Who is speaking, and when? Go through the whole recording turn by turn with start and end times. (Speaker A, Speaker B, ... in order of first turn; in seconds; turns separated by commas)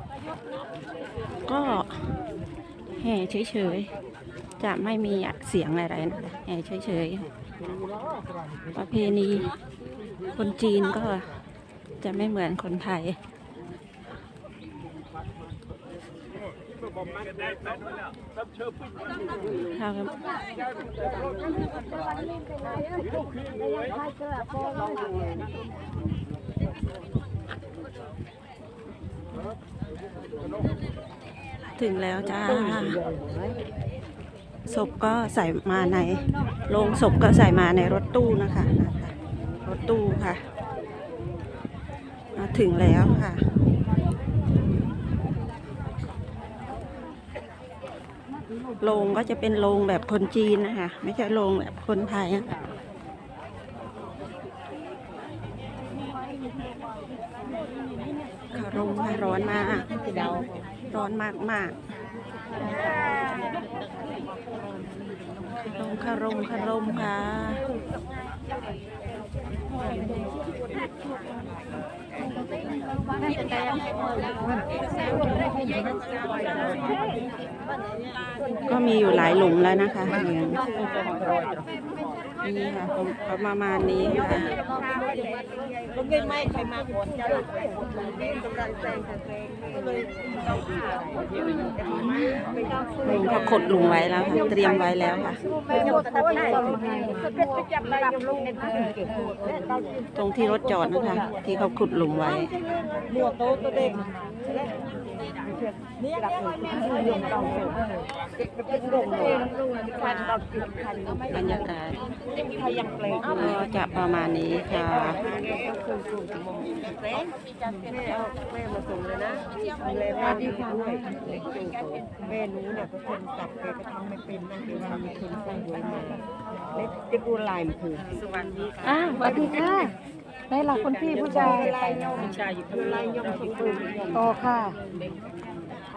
Speaker A: 1.5-2.1, Speaker A: 2.9-3.9, Speaker A: 4.6-7.3, Speaker A: 8.7-9.5, Speaker A: 10.3-11.3, Speaker A: 12.0-13.2, Speaker A: 19.7-20.2, Speaker A: 31.8-33.0, Speaker A: 34.7-40.4, Speaker A: 42.4-43.4, Speaker A: 48.8-52.5, Speaker A: 58.5-60.0, Speaker A: 60.9-61.8, Speaker A: 65.6-67.6, Speaker A: 78.7-80.7, Speaker B: 80.8-81.4, Speaker A: 82.4-84.6, Speaker B: 85.0-93.1, Speaker A: 93.0-95.4, Speaker B: 95.7-99.7, Speaker C: 96.8-97.1, Speaker A: 100.2-102.5, Speaker B: 102.8-104.6, Speaker B: 105.4-107.8, Speaker B: 108.5-111.3, Speaker A: 111.3-112.0, Speaker B: 112.5-113.3, Speaker A: 113.3-115.3, Speaker B: 115.3-117.3, Speaker B: 117.8-126.2, Speaker C: 120.4-120.8, Speaker B: 126.8-128.1, Speaker A: 128.9-129.3, Speaker C: 128.9-130.0, Speaker C: 130.5-132.4, Speaker B: 131.2-134.2, Speaker C: 134.2-134.8